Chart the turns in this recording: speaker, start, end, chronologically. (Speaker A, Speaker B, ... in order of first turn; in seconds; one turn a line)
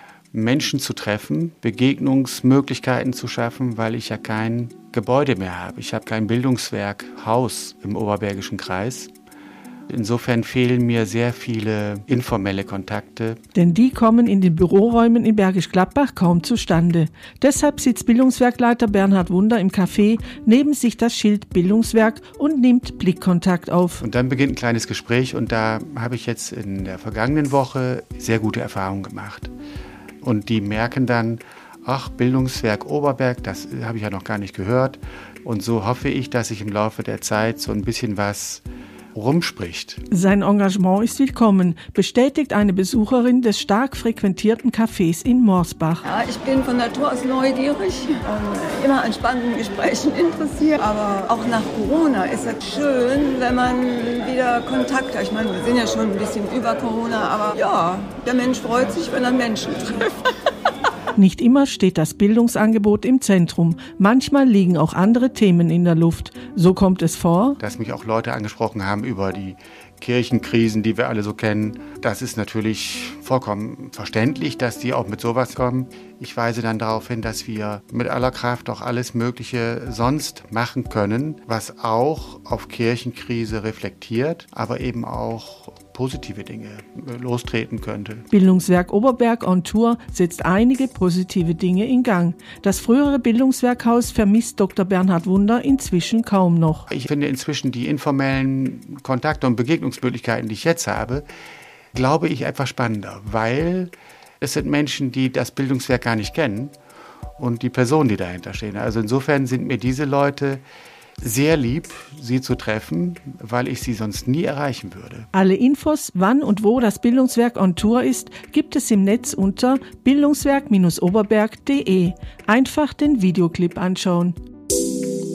Speaker A: 0.3-9.1
Speaker A: 9.9-13.4
Speaker B: 13.5-24.0
Speaker A: 24.0-29.5
Speaker A: 30.2-40.0
Speaker B: 40.1-46.0
Speaker C: 46.0-60.3
Speaker B: 61.1-67.6
Speaker A: 67.6-88.3
Speaker B: 88.3-96.9
Speaker A: 96.9-101.2
Speaker A: 101.9-106.7
Speaker A: 107.4-110.6
Speaker A: 111.2-115.3
Speaker B: 115.3-124.3